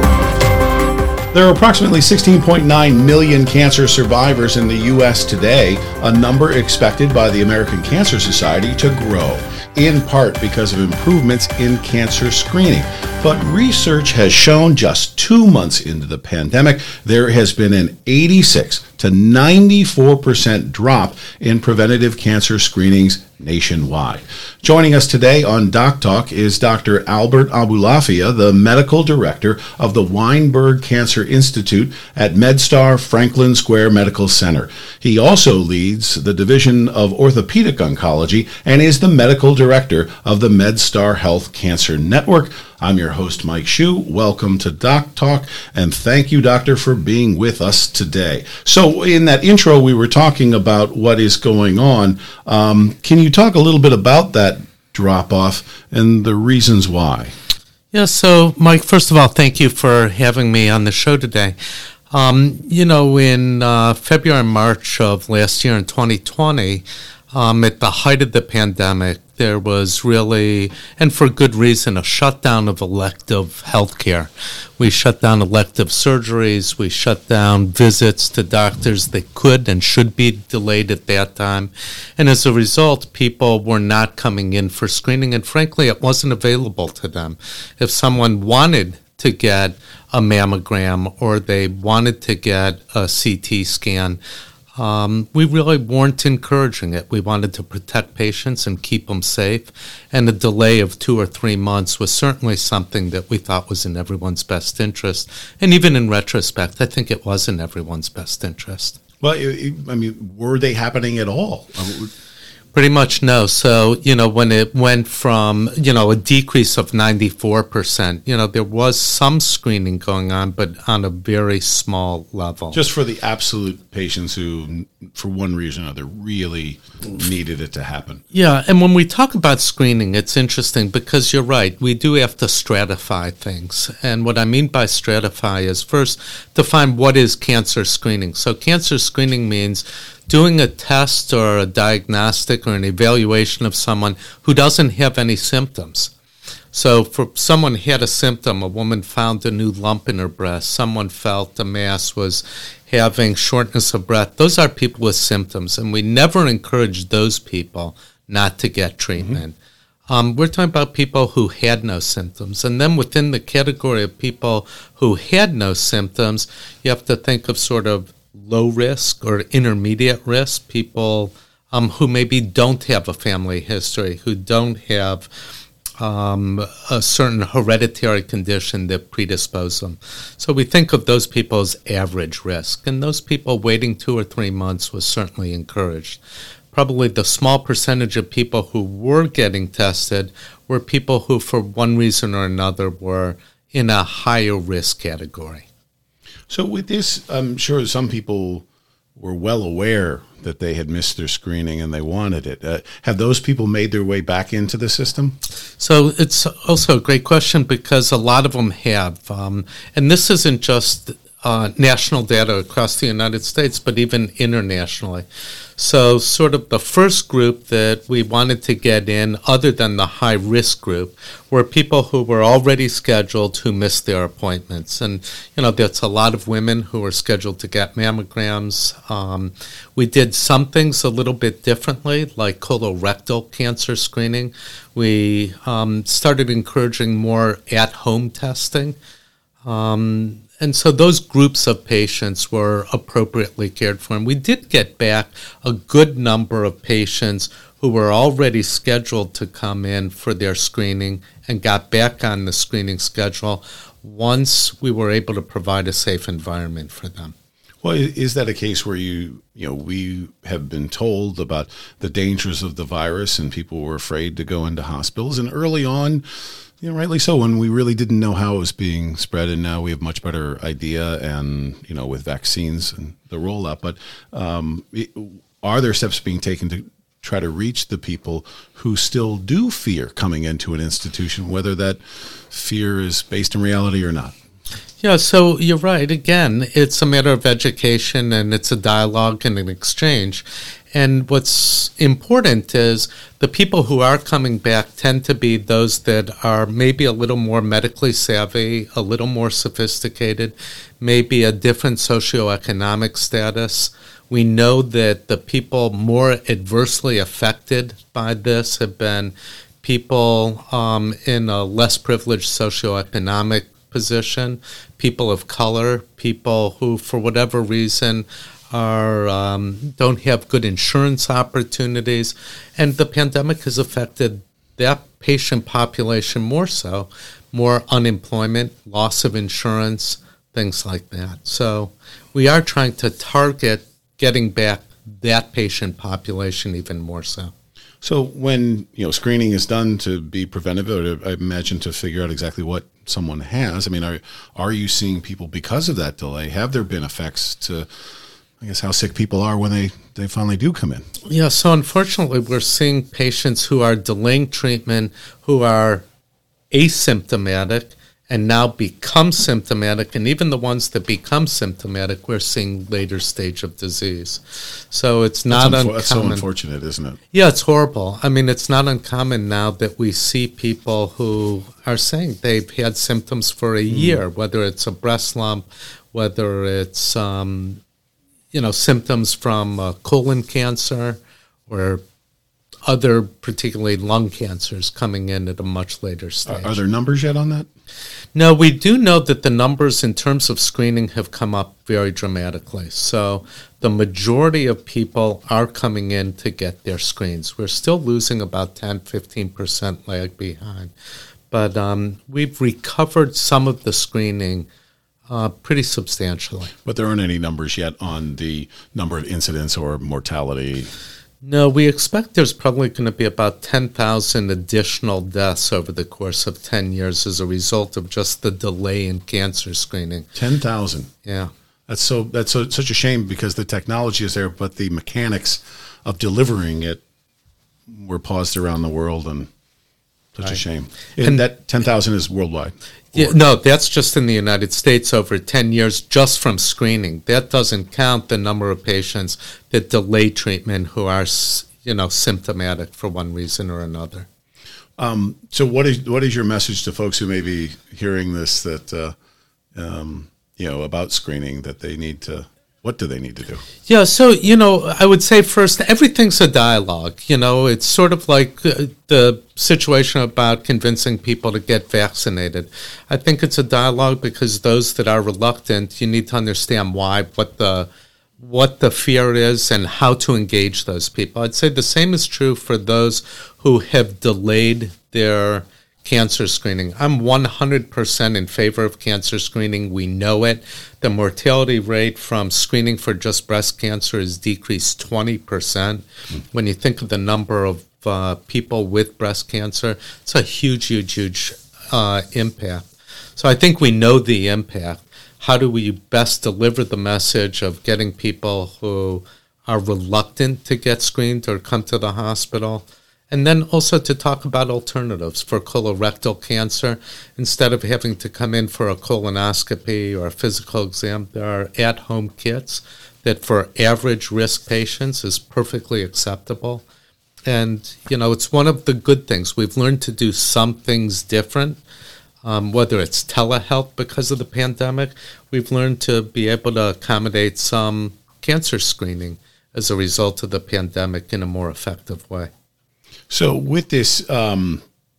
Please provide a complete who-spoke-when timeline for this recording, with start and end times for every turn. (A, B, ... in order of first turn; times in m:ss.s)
0:01.3-0:57.3 A
0:57.9-1:01.6 B
1:02.1-1:34.2 B
1:34.8-1:49.0 B
1:49.2-1:52.1 A
1:52.7-2:02.8 B
2:02.7-2:08.2 A
2:08.3-2:26.1 B
2:26.7-2:39.6 B
2:40.1-2:55.3 B
2:56.0-3:06.2 B
3:06.7-3:15.7 B
3:16.5-3:18.6 A
3:19.2-3:25.4 A
3:25.8-3:35.3 B
3:35.8-3:59.0 B
3:59.6-4:17.3 B
4:17.8-4:26.2 A
4:26.8-4:44.4 A
4:45.0-5:37.5 B
5:38.0-5:47.9 A
5:48.6-5:51.1 A
5:51.2-5:56.1 B
5:56.7-6:06.5 B
6:05.5-6:07.2 A
6:07.3-6:17.8 B
6:13.9-6:14.2 A
6:18.5-6:22.0 B
6:22.8-6:26.8 B
6:26.5-6:27.7 A
6:28.4-6:40.9 B
6:41.5-6:44.7 B
6:45.3-6:46.7 B
6:46.8-6:50.9 A
6:51.4-7:00.3 B
7:00.4-7:01.1 A
7:01.2-7:01.5 B
7:01.9-7:07.0 A
7:07.9-7:09.5 A
7:10.3-7:13.3 A
7:13.1-7:24.3 B
7:25.0-7:29.2 A
7:29.8-7:33.6 A
7:33.9-7:47.9 B
7:48.4-8:36.8 B
8:37.5-8:41.8 B
8:42.4-8:52.5 B
8:53.3-8:54.8 A